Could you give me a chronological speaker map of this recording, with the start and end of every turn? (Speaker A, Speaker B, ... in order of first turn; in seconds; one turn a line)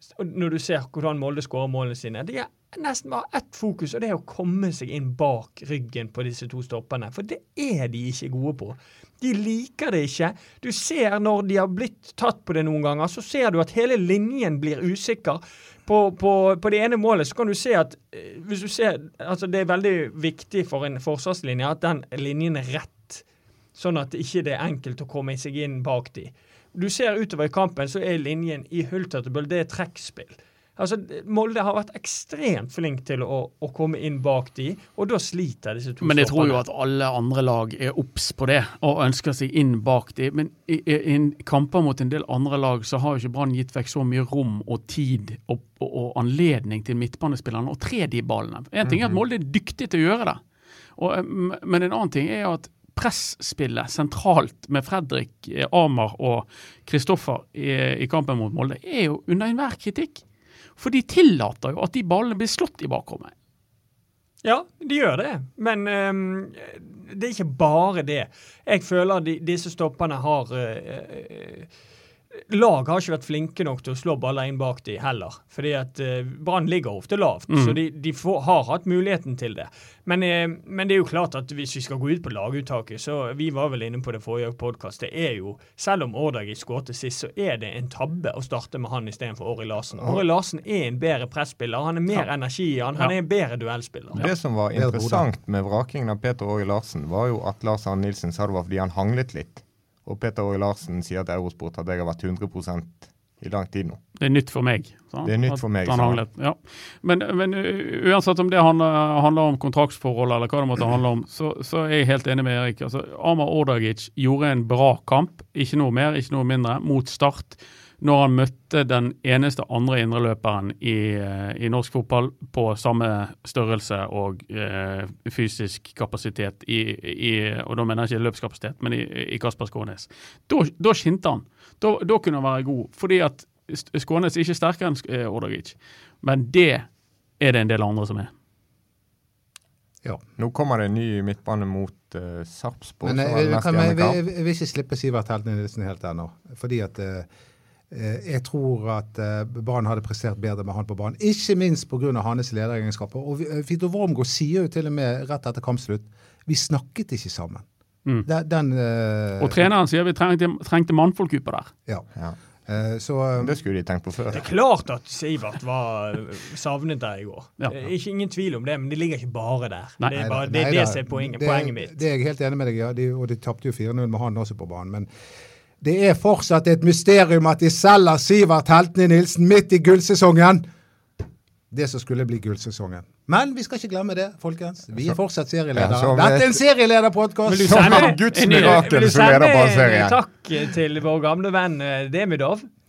Speaker A: 0.1-36.6
Speaker B: 36.0-50.4
Speaker C: 48.8-49.2
Speaker B: 51.0-60.2
Speaker B: 60.8-63.3
Speaker A: 64.4-71.7
Speaker A: 72.5-94.3
Speaker B: 77.5-77.8
Speaker C: 94.2-104.0
Speaker D: 94.7-95.2
Speaker B: 104.2-136.9
Speaker C: 105.2-106.2
Speaker B: 137.4-138.3
Speaker C: 140.4-144.2
Speaker D: 143.0-147.3
Speaker D: 147.9-157.7
Speaker D: 158.2-159.7
Speaker B: 159.4-161.7
Speaker D: 162.7-163.5
Speaker C: 163.4-164.4
Speaker A: 164.3-172.0
Speaker D: 170.1-175.1
Speaker D: 175.8-180.6
Speaker D: 181.7-188.2
Speaker C: 185.7-186.6
Speaker A: 187.4-192.7
Speaker C: 187.6-190.2
Speaker B: 188.3-188.9